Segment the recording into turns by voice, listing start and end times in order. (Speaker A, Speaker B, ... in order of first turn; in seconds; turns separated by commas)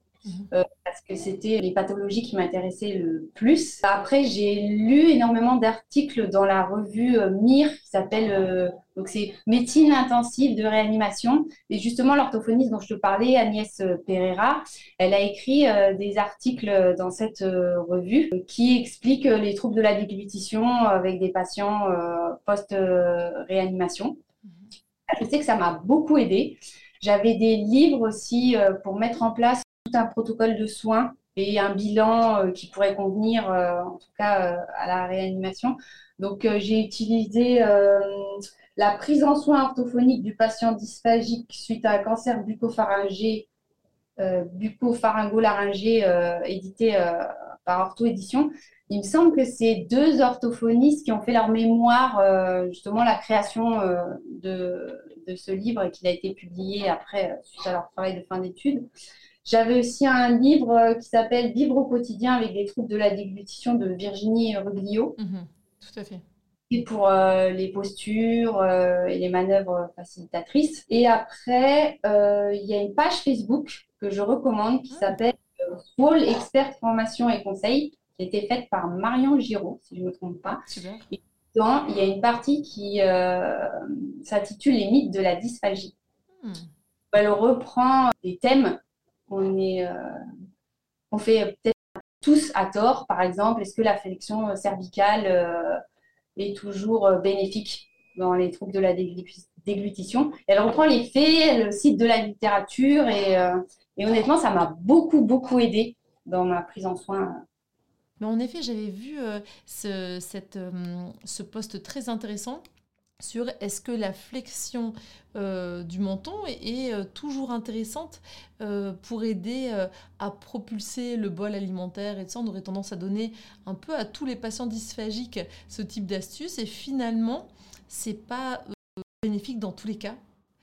Speaker A: 0.5-24.2, Speaker A: 25.1-43.5, Speaker A: 44.2-58.9, Speaker A: 59.4-65.2, Speaker B: 65.2-66.2, Speaker A: 66.7-80.6, Speaker B: 74.9-75.2, Speaker B: 80.7-81.1, Speaker A: 81.1-85.9, Speaker B: 86.4-86.7, Speaker A: 87.1-90.2, Speaker A: 91.1-95.8, Speaker A: 96.3-107.4, Speaker B: 108.2-112.6, Speaker B: 113.2-130.2